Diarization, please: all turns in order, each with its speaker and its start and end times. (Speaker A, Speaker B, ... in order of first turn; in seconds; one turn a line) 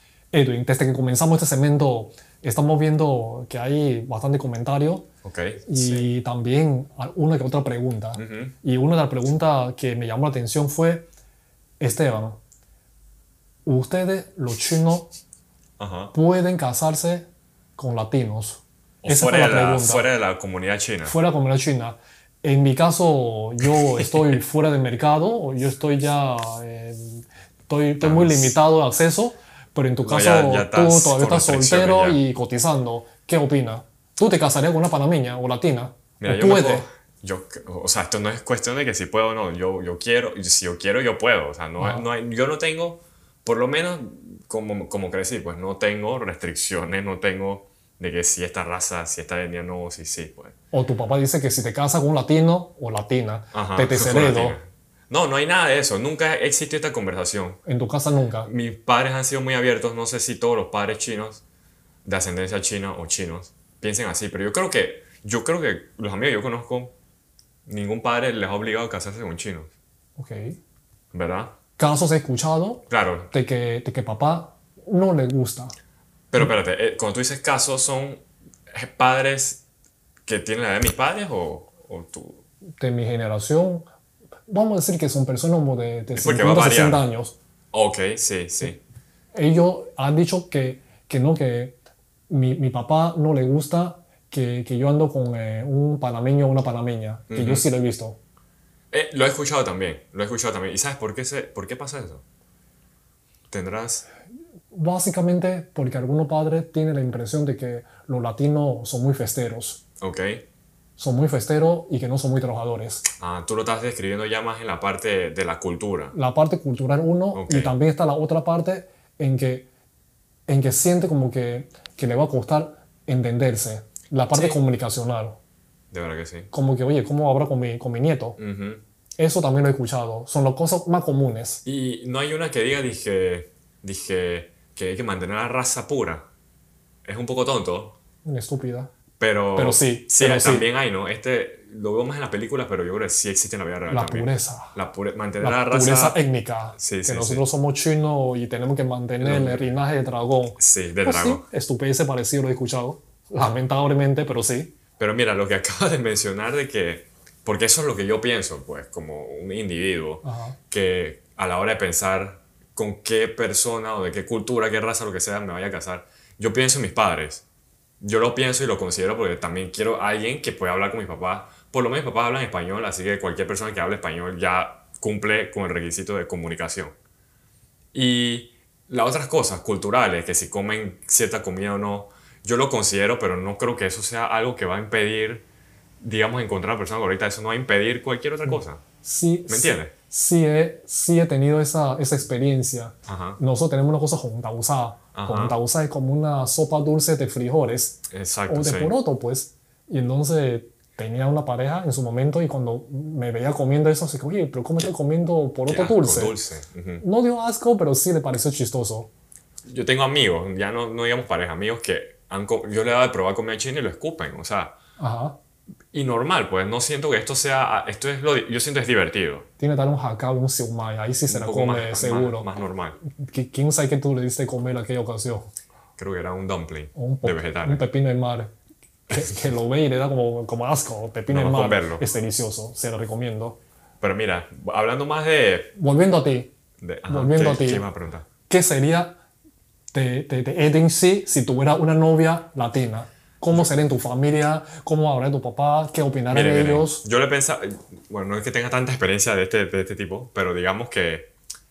Speaker A: 0.3-5.1
Speaker B: 5.2-6.1
Speaker A: 5.7-11.1
Speaker B: 8.2-8.5
Speaker A: 11.8-12.4
Speaker A: 13.7-15.1
Speaker B: 15.8-16.1
Speaker A: 16.1-20.1
Speaker B: 19.0-21.2
Speaker A: 21.0-36.9
Speaker B: 28.0-28.6
Speaker B: 30.0-32.2
Speaker B: 36.2-50.5
Speaker A: 41.8-42.0
Speaker A: 50.7-54.6
Speaker B: 53.5-57.6
Speaker A: 57.6-58.5
Speaker B: 58.4-61.4
Speaker B: 62.0-66.9
Speaker B: 67.7-69.7
Speaker A: 70.2-70.6
Speaker B: 71.1-71.5
Speaker A: 71.8-75.7
Speaker B: 72.9-73.3
Speaker B: 76.3-79.6
Speaker B: 80.2-82.4
Speaker A: 82.8-83.8
Speaker A: 84.5-87.4
Speaker B: 86.2-87.0
Speaker B: 87.7-88.8
Speaker A: 89.3-91.8
Speaker A: 92.3-98.2
Speaker B: 97.3-97.7
Speaker B: 98.9-102.2
Speaker B: 103.5-104.1
Speaker A: 104.7-109.8
Speaker B: 110.0-110.4
Speaker A: 111.0-113.1
Speaker B: 113.2-116.1
Speaker A: 116.1-119.7
Speaker B: 117.3-117.7
Speaker A: 120.5-125.4
Speaker B: 124.3-124.6
Speaker B: 125.9-126.5
Speaker A: 126.5-128.4
Speaker B: 128.4-128.8
Speaker A: 129.2-131.6
Speaker B: 131.7-136.3
Speaker B: 137.1-138.0
Speaker A: 138.2-138.9
Speaker B: 139.2-146.2
Speaker A: 139.6-140.7
Speaker A: 143.9-144.8
Speaker A: 145.4-154.7
Speaker B: 146.7-147.4
Speaker B: 149.2-149.7
Speaker B: 150.6-151.4
Speaker B: 155.0-167.4
Speaker A: 160.2-160.6
Speaker B: 168.0-176.9
Speaker B: 177.9-185.4
Speaker B: 186.0-188.8
Speaker A: 188.5-206.4
Speaker B: 189.5-189.9
Speaker B: 193.1-193.4
Speaker B: 195.2-195.6
Speaker B: 198.1-198.9
Speaker B: 205.7-207.0
Speaker A: 207.0-209.1
Speaker B: 209.7-214.8
Speaker A: 215.0-215.4
Speaker B: 215.9-219.5
Speaker A: 219.6-222.5
Speaker B: 221.3-223.0
Speaker A: 223.1-225.5
Speaker B: 226.0-227.8
Speaker A: 227.0-228.5
Speaker A: 229.1-233.6
Speaker B: 231.3-232.1
Speaker B: 234.0-235.7
Speaker A: 235.8-236.5
Speaker B: 236.8-238.3
Speaker A: 237.1-237.8
Speaker A: 238.5-239.2
Speaker A: 239.9-247.0
Speaker B: 246.3-251.3